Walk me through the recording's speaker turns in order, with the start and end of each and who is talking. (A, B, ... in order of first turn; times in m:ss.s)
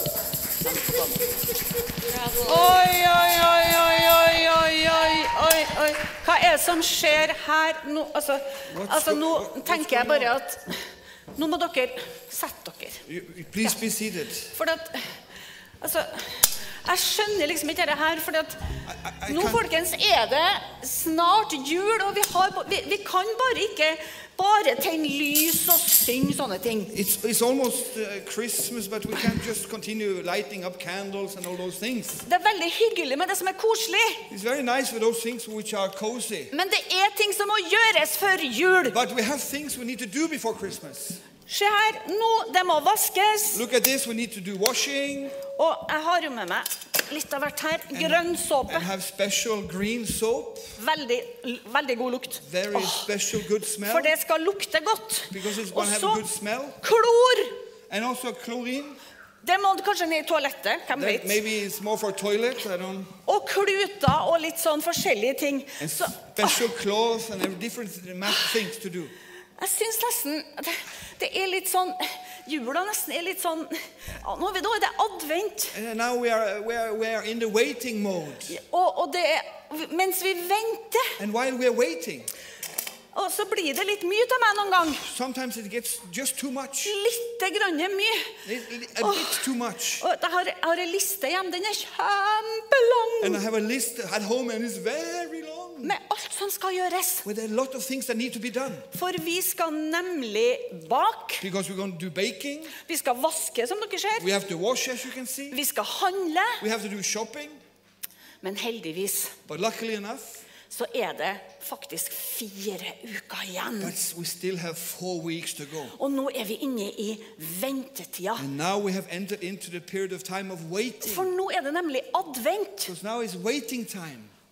0:00.6-0:01.3 A
0:02.4-0:10.8 A
0:08.7-0:10.4 B
0:11.3-0:13.0 A
0:13.0-0:14.5 B
0:14.5-0:15.1 A
0:15.8-0:18.6 A
0:18.9-0:19.6 B
0:19.3-0:26.9 A
0:26.9-0:32.2 B
0:32.2-0:34.2 A
0:34.3-0:36.5 B
0:36.5-0:39.0 A
0:38.8-0:41.2 B
0:41.5-0:43.6 A
0:43.5-0:45.4 B
0:45.5-0:48.9 A
0:47.9-0:50.8 B
0:50.8-0:53.1 A
0:52.4-0:54.1 B
0:53.8-0:56.2 A
0:55.3-0:56.8 B
0:56.8-0:57.6 A
0:57.9-0:59.0 B
0:59.4-1:01.4 A
1:00.9-1:03.1 B
1:03.2-1:06.7 A
1:05.8-1:09.1 B
1:09.6-1:15.8 A
1:15.7-1:18.6 B
1:18.5-1:21.2 A
1:21.2-1:22.3 B
1:23.1-1:25.0 A
1:25.0-1:27.0 B
1:26.8-1:28.4 A
1:28.4-1:30.0 B
1:29.0-1:33.4 A
1:33.2-1:36.0 B
1:35.8-1:37.2 A
1:37.2-1:38.8 B
1:38.9-1:41.4 A
1:41.4-1:42.7 B
1:42.8-1:44.3 A
1:44.2-1:45.6 B
1:45.5-1:46.6 A
1:46.6-1:47.6 B
1:48.4-1:49.3 A
1:49.5-1:50.4 B
1:50.7-1:54.0 A
1:53.8-1:56.0 B
1:55.9-1:58.5 A
1:58.4-2:01.3 B
2:01.0-2:02.9 A
2:02.9-2:04.3 B